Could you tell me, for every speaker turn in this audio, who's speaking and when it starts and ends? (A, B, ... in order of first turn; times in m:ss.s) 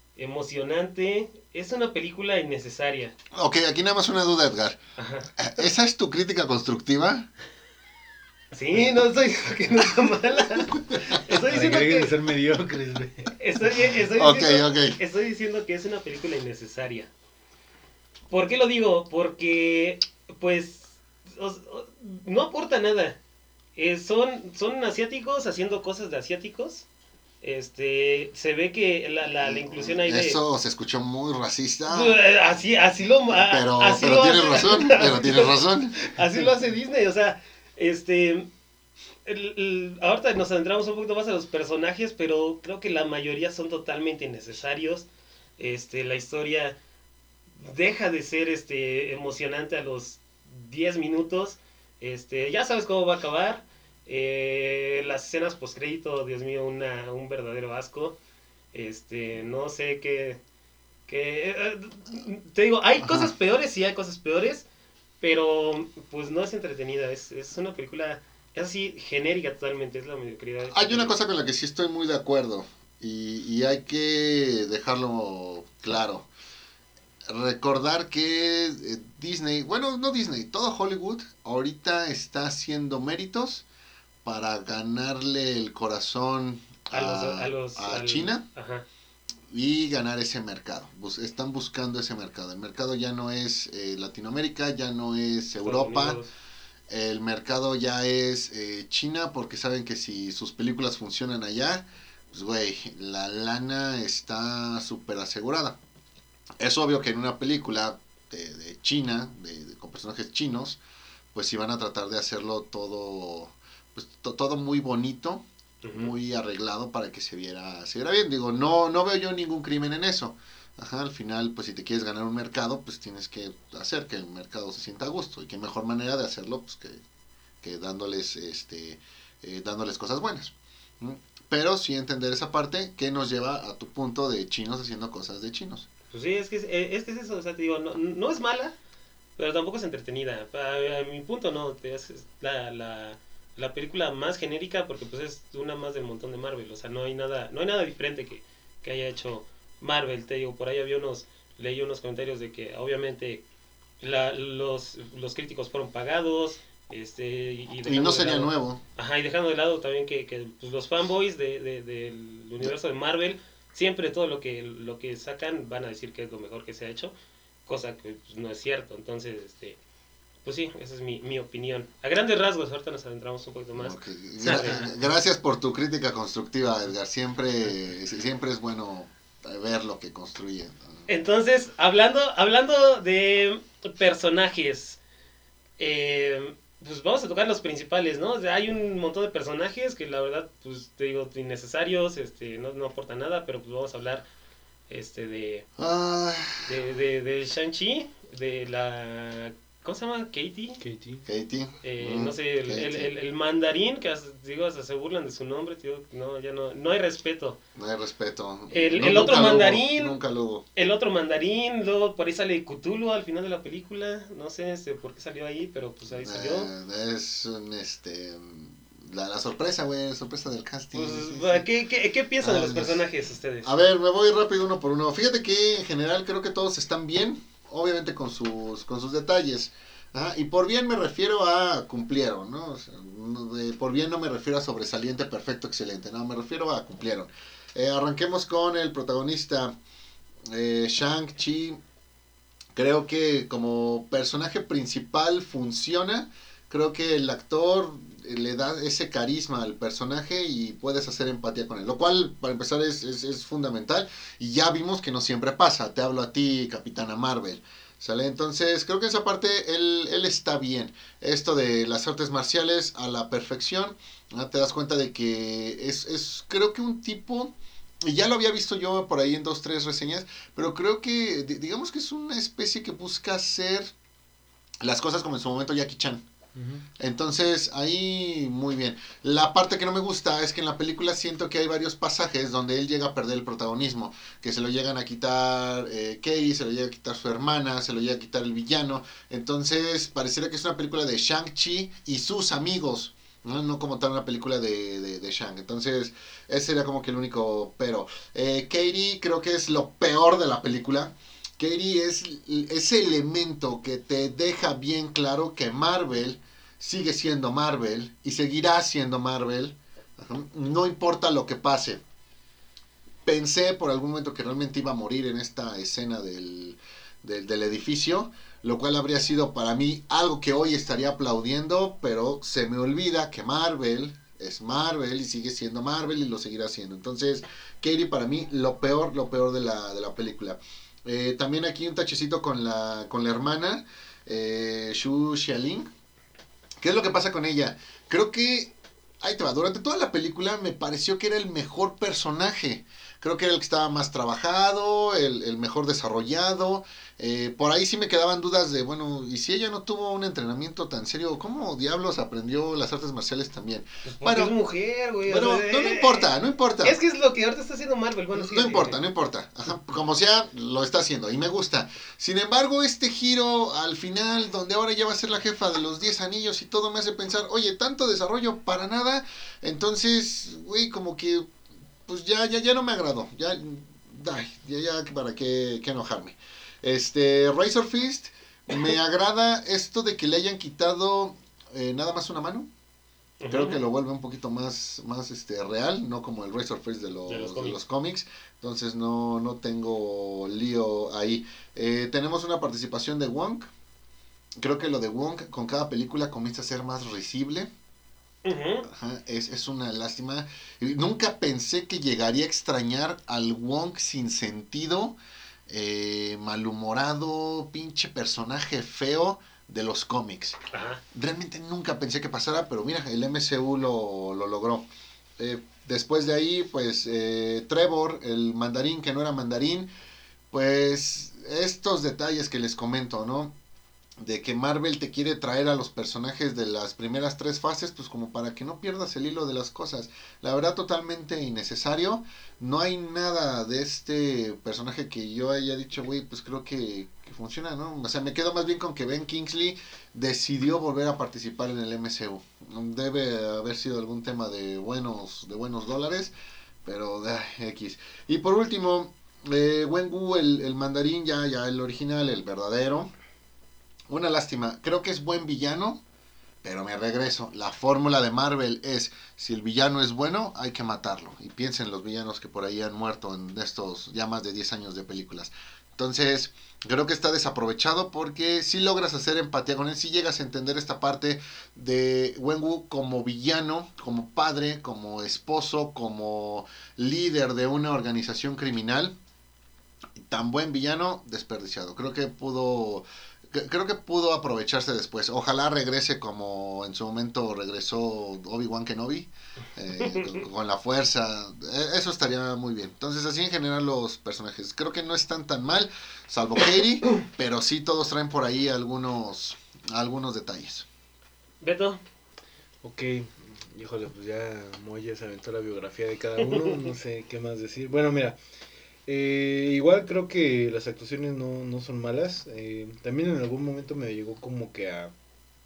0:00.2-0:03.1 A
0:03.3-0:04.8 B
0:05.0-0:05.3 A
0:05.4-0:07.3 B
0:08.5-0:12.1 A
0:11.3-0:13.4 C
0:13.4-0:17.1 A
0:14.2-0:15.0 B
0:18.3-0:23.2 A
0:23.8-0:26.9 A
0:27.4-0:30.4 A
0:29.4-0:32.2 B
0:31.9-0:38.5 A
0:33.3-0:36.1 B
0:39.3-0:45.1 A
0:45.6-0:46.8 A
0:47.6-0:58.2 A
0:58.7-1:00.4 A
1:01.1-1:04.7 A
1:03.0-1:03.3 B
1:05.2-1:11.2 A
1:10.7-1:16.3 B
1:17.3-1:23.6 B
1:24.2-1:28.4 B
1:26.9-1:28.8 A
1:29.5-1:36.2 B
1:35.6-1:36.3 A
1:36.9-1:45.8 B
1:46.6-1:50.8 B
1:51.3-2:07.0 B
1:55.8-1:56.1 A
2:07.6-2:15.9 B
2:16.1-2:18.7 A
2:19.4-2:33.4 A
2:34.0-2:47.1 A
2:37.8-2:38.8 B
2:47.7-2:49.8 A
2:50.4-2:55.0 A
2:53.8-3:01.1 B
3:01.1-3:05.0 A
3:05.8-3:14.3 A
3:14.9-3:15.7 A
3:15.8-3:16.8 B
3:16.6-3:20.8 A
3:20.8-3:21.3 C
3:21.3-3:23.1 B
3:21.8-3:27.6 A
3:27.8-3:30.6 B
3:28.7-3:30.2 A
3:30.8-3:36.7 A
3:36.1-3:41.7 B
3:40.9-3:43.7 A
3:42.4-3:43.1 B
3:43.6-3:59.7 B
4:00.5-4:01.8 B
4:02.7-4:27.5 B
4:28.0-4:33.9 B
4:34.8-4:36.2 B
4:36.6-4:36.9 C
4:37.0-5:12.0 B
5:13.2-5:35.9 B
5:36.8-5:54.5 B
5:54.1-5:56.3 A
5:55.3-5:57.0 B
5:56.8-5:59.0 A
5:58.4-6:11.5 B
6:12.1-6:22.7 B
6:23.4-6:23.8 A
6:23.5-6:33.7 B
6:27.3-6:27.8 A
6:34.6-6:37.7 B
6:38.4-6:38.9 A
6:38.9-6:45.2 B
6:45.7-6:50.6 B
6:50.7-6:51.0 A
6:51.1-6:54.9 B
6:55.4-6:59.9 B
7:00.5-7:03.5 B
7:04.2-7:26.3 B
7:26.8-7:33.1 B
7:34.1-7:36.0 B
7:36.6-7:59.1 B
8:00.2-8:20.9 B
8:21.6-8:22.0 A
8:22.8-8:28.4 C
8:26.5-8:26.8 A
8:29.1-8:35.1 C